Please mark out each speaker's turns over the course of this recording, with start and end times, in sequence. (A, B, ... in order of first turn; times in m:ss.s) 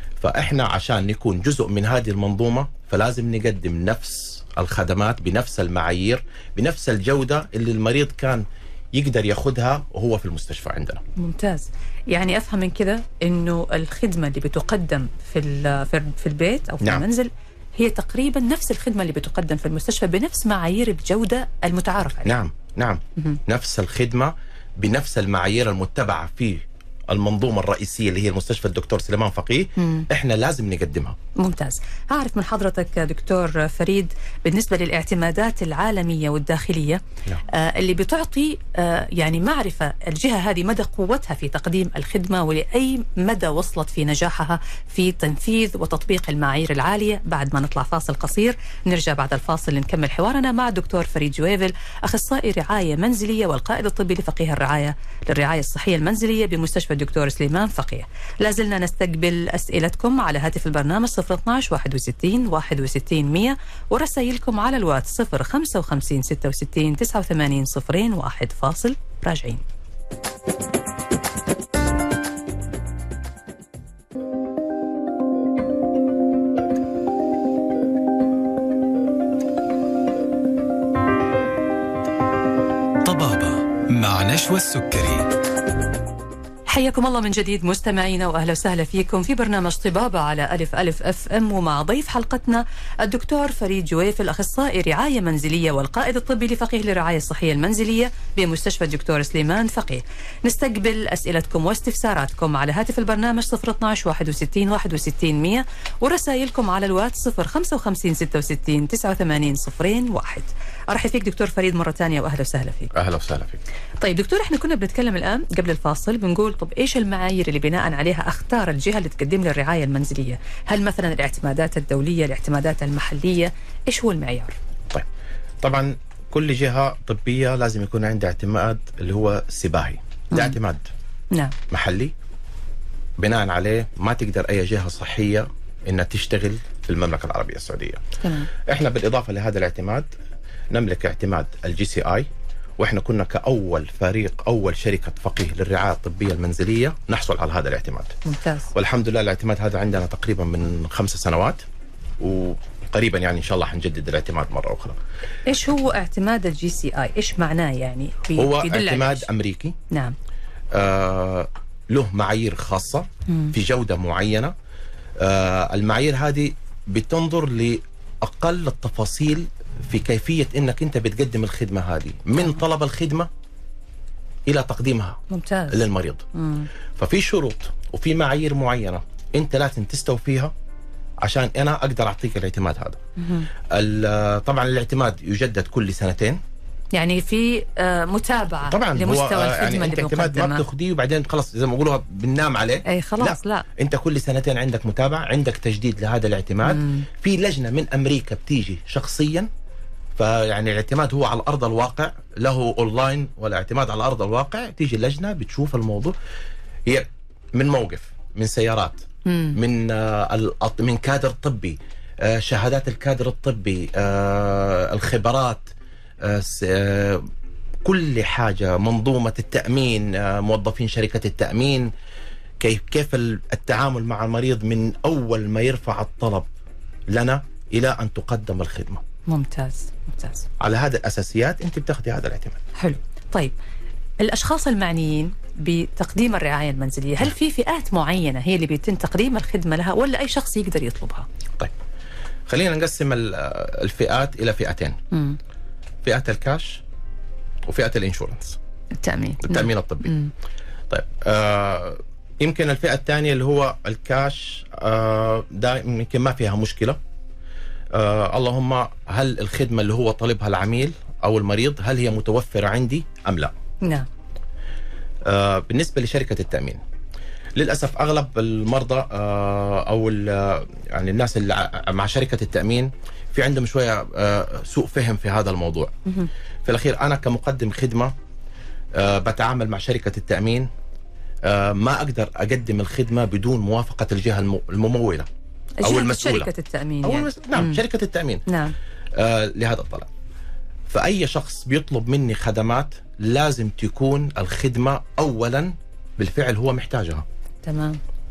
0:00.2-0:11.0 A
0:11.2-0:22.3 B
0:22.2-0:31.2 A
0:29.8-0:30.1 B
0:31.4-1:09.6 B
1:23.0-1:25.3 C
1:26.7-1:52.9 B
1:52.9-1:53.6 A
1:54.0-2:04.6 B
2:05.6-2:10.9 A
2:10.3-2:10.6 B
2:11.7-2:12.1 A
2:13.2-2:20.1 A
2:18.2-2:18.5 B
2:20.7-2:22.3 A
2:22.8-2:28.2 A
2:28.2-2:28.7 B
2:28.7-2:31.6 A
2:32.2-2:35.0 A
2:35.4-2:39.3 B
2:38.4-2:39.8 A
2:39.9-2:40.1 B
2:40.7-2:44.5 A
2:43.3-2:43.5 B
2:45.2-2:53.3 A
2:54.5-2:55.2 A
2:55.3-2:56.7 B
2:55.7-2:56.2 A
2:57.0-3:00.5 A
3:01.2-3:03.0 A
3:03.2-3:03.5 B
3:03.7-3:06.4 A
3:06.9-3:10.6 B
3:08.7-3:19.5 A
3:12.8-3:13.6 B
3:16.6-3:17.1 B
3:20.2-3:26.2 A
3:26.8-3:37.3 A
3:29.2-3:29.6 B
3:37.8-3:41.9 A
3:42.6-3:46.5 A
3:47.1-3:49.0 A
3:49.3-3:50.4 B
3:50.6-3:52.6 A
3:52.8-3:53.5 B
3:54.2-4:01.3 B
4:02.5-4:05.0 A
4:05.1-4:05.4 B
4:06.0-4:06.8 A
4:07.7-4:08.6 A
4:09.0-4:10.3 B
4:09.4-4:10.1 A
4:10.9-4:17.0 A
4:17.9-4:23.5 A
4:23.8-4:24.1 B
4:25.2-4:26.8 A
4:27.6-4:35.9 A
4:36.6-4:38.1 A
4:38.9-4:40.7 A
4:41.4-4:45.3 A
4:45.8-4:47.8 B
4:45.8-4:46.5 A
4:47.0-4:48.4 A
4:48.5-4:48.8 B
4:49.1-4:50.1 A
4:50.9-4:57.2 A
4:57.6-4:58.0 B